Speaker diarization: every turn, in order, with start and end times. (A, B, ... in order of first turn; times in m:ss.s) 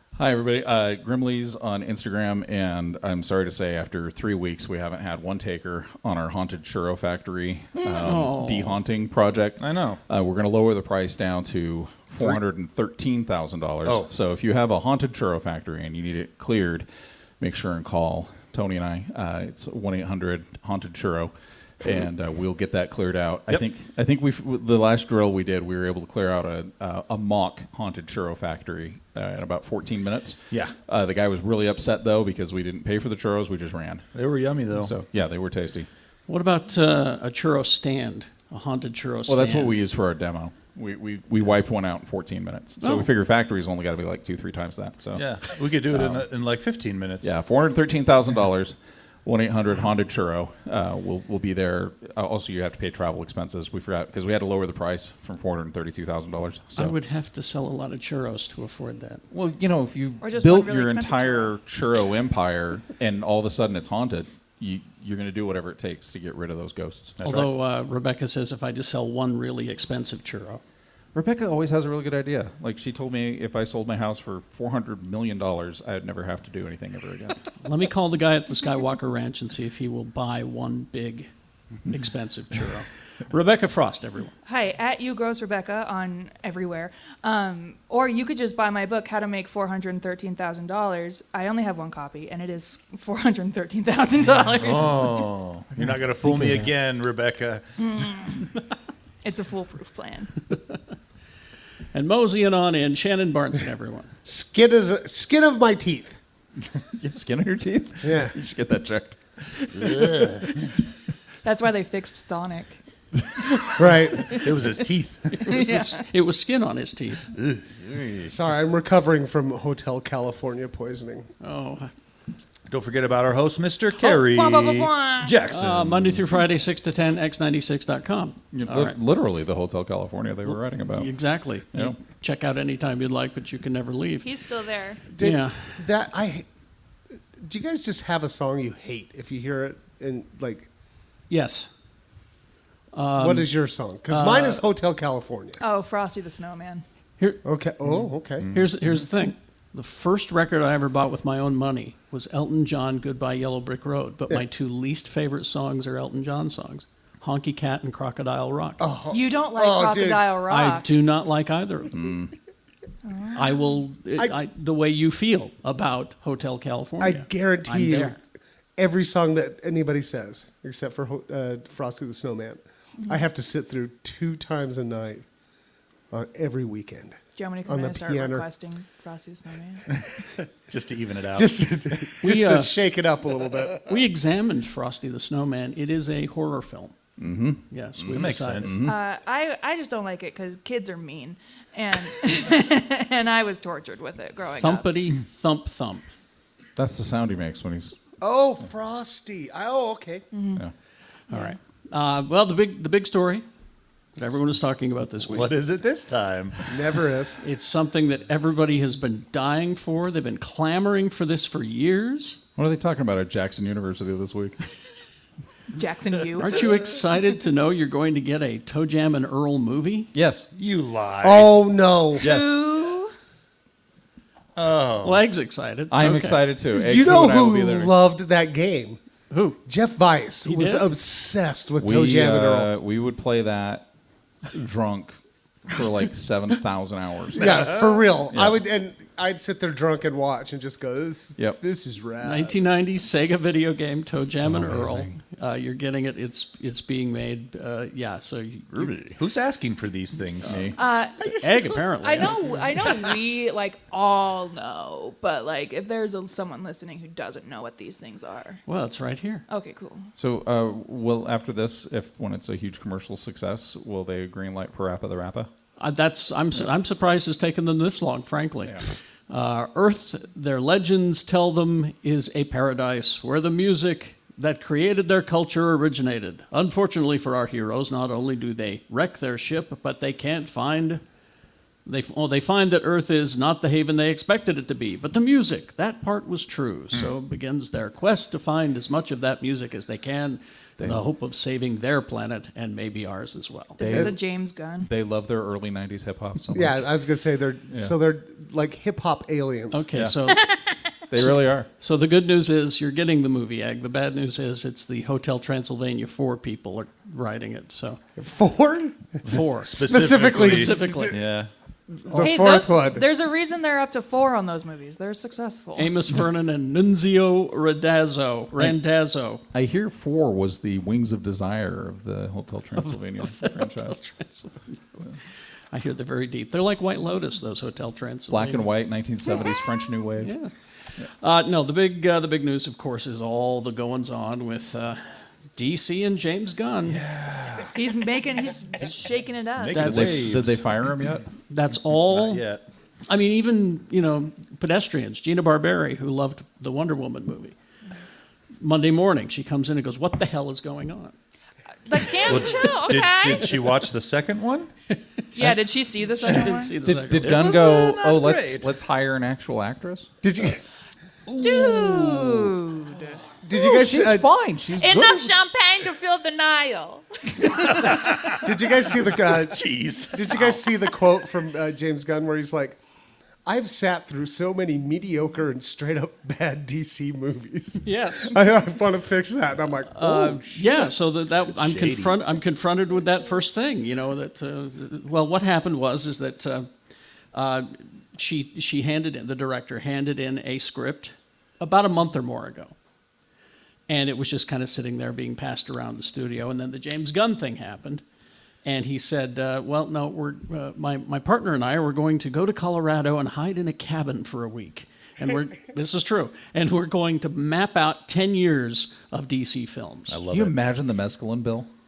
0:00.2-0:16.9 A
0:08.0-0:08.8 B
0:09.6-0:10.0 C
0:13.8-0:14.1 C
0:17.4-0:34.1 A
0:30.5-0:30.8 C
0:34.2-0:34.9 C
0:34.7-0:35.9 A
0:36.3-0:39.8 B
0:39.3-0:45.3 A
0:42.8-0:43.1 B
0:45.2-0:47.3 C
0:45.9-0:46.3 A
0:47.2-0:57.0 A
0:56.8-0:59.2 B
0:59.3-1:07.2 A
1:00.2-1:01.6 D
1:07.2-1:07.5 C
1:07.2-1:10.6 B
1:11.1-1:17.4 A
1:17.6-1:21.3 B
1:21.9-1:24.3 B
1:24.5-1:35.2 D
1:34.6-1:38.2 C
1:35.8-1:36.6 A
1:37.8-1:38.5 D
1:39.2-1:40.3 D
1:41.9-1:44.1 B
1:44.2-1:46.2 E
1:46.9-1:50.7 A
1:48.0-1:48.4 E
1:49.8-1:50.6 C
1:51.4-1:52.8 D
1:53.8-1:54.4 E
1:54.3-1:55.6 C
1:55.4-1:57.3 B
1:55.5-1:56.0 D
1:57.4-1:58.3 C
1:58.3-2:01.3 E
2:01.4-2:01.9 B
2:02.7-2:06.2 C
2:04.0-2:05.4 D
2:05.5-2:09.0 B
2:08.5-2:11.1 A
2:10.9-2:14.3 B
2:14.2-2:15.0 D
2:15.1-2:16.5 E
2:15.2-2:15.6 B
2:17.4-2:20.7 E
2:21.3-2:21.7 B
2:22.9-2:23.5 B
2:23.2-2:25.6 E
2:24.1-2:24.6 B
2:25.6-2:26.8 D
2:27.4-2:28.5 E
2:28.4-2:28.7 C
2:28.5-2:38.9 B
2:38.8-2:40.3 E
2:39.1-2:40.9 D
2:40.5-2:42.2 B
2:41.9-2:42.3 A
2:43.0-2:43.6 D
2:43.4-2:48.2 B
2:47.0-2:48.2 E
2:48.8-2:55.2 E
2:56.1-2:58.5 E
2:57.4-2:59.8 D
3:00.7-3:01.6 C
3:01.4-3:03.8 E
3:02.2-3:02.8 B
3:03.9-3:07.0 B
3:07.2-3:09.0 A
3:07.7-3:08.8 B
3:08.1-3:08.8 C
3:08.8-3:14.9 D
3:14.6-3:16.0 B
3:16.8-3:18.0 A
3:18.2-3:20.2 E
3:20.3-3:20.6 D
3:21.3-3:23.4 B
3:24.2-3:25.5 B
3:25.3-3:26.7 C
3:26.7-3:27.4 E
3:27.4-3:32.4 B
3:32.6-3:34.6 A
3:35.8-3:36.7 D
3:36.4-3:40.1 B
3:40.1-3:40.5 A
3:40.5-3:41.5 C
3:41.2-3:42.3 E
3:42.2-3:43.1 D
3:42.2-3:42.6 C
3:44.6-3:45.2 C
3:45.0-3:46.4 B
3:45.9-3:47.9 A
3:46.7-3:49.0 E
3:49.3-3:49.6 B
3:49.7-3:52.7 E
3:50.4-3:50.9 B
3:51.8-3:53.9 A
3:54.5-3:55.2 A
3:55.7-3:57.8 A
3:57.4-4:02.6 E
3:58.3-3:58.6 A
4:02.2-4:09.1 B
4:04.2-4:05.2 A
4:08.7-4:09.1 A
4:09.2-4:10.7 C
4:10.4-4:10.8 A
4:10.8-4:18.6 D
4:11.2-4:12.5 B
4:18.7-4:19.4 B
4:19.5-4:20.1 D
4:20.2-4:25.5 A
4:25.8-4:41.0 B
4:41.9-4:53.8 B
4:53.8-4:54.9 D
4:53.8-4:54.2 A
4:53.9-4:54.1 E
4:54.8-4:56.8 A
4:56.5-4:59.9 E
4:59.7-5:00.6 B
5:01.1-5:01.7 A
5:01.2-5:08.0 B
5:08.2-5:11.2 E
5:09.2-5:11.2 B
5:09.3-5:11.5 C
5:11.9-5:13.0 E
5:12.2-5:15.9 D
5:15.8-5:19.4 B
5:19.5-5:24.0 A
5:22.8-5:25.1 B
5:25.7-5:28.7 B
5:28.3-5:30.3 A
5:30.2-5:30.5 B
5:31.2-5:37.0 B
5:36.9-5:37.7 C
5:37.7-5:39.9 D
5:39.6-5:40.6 C
5:39.7-5:40.4 B
5:39.8-5:41.3 A
5:41.5-5:42.5 B
5:41.9-5:42.7 C
5:43.1-5:47.6 B
5:48.6-5:51.2 B
5:51.9-5:53.8 D
5:52.2-5:54.7 C
5:55.3-5:56.8 D
5:56.2-5:57.5 B
5:56.8-6:00.1 A
5:57.2-5:58.7 C
6:00.2-6:00.6 E
6:01.3-6:02.5 C
6:01.4-6:03.6 D
6:03.4-6:04.3 E
6:03.7-6:05.3 A
6:04.8-6:07.8 D
6:07.4-6:10.6 C
6:08.4-6:12.8 E
6:13.5-6:20.6 E
6:17.8-6:18.4 B
6:19.9-6:26.7 B
6:20.6-6:20.9 C
6:21.5-6:22.2 C
6:27.3-6:32.8 B
6:33.9-6:38.0 B
6:38.6-6:50.2 B
6:50.1-6:50.6 C
6:50.3-6:51.7 A